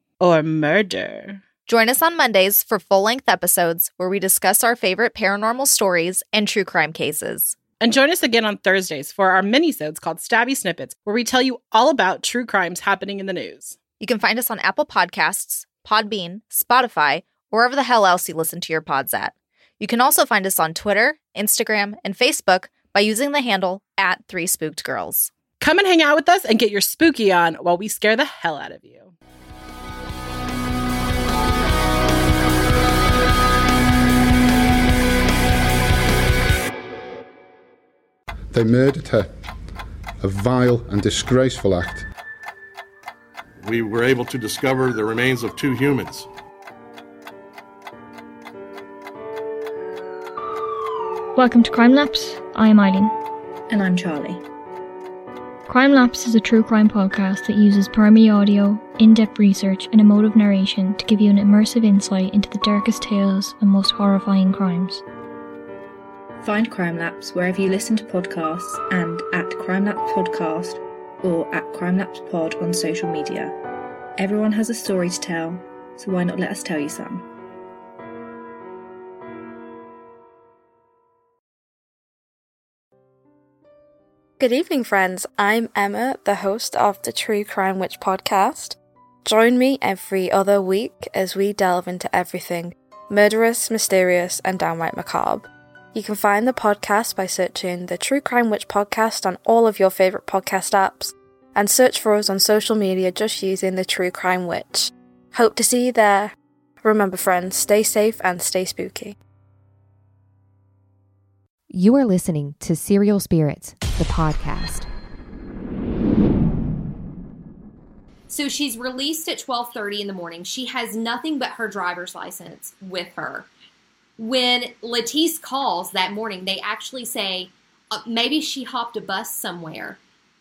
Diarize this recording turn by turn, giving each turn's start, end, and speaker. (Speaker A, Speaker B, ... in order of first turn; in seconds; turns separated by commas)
Speaker A: 0.2-1.4, Speaker B: 1.7-7.6, Speaker A: 7.8-13.8, Speaker B: 14.0-25.3, Speaker A: 25.6-29.1, Speaker C: 38.5-39.3, Speaker C: 40.2-42.0, Speaker D: 43.6-46.3, Speaker E: 51.3-53.1, Speaker F: 53.7-54.4, Speaker E: 55.7-65.0, Speaker F: 66.4-73.5, Speaker F: 74.2-77.3, Speaker G: 84.4-109.1, Speaker H: 111.7-114.9, Speaker I: 118.3-123.5, Speaker I: 124.2-130.0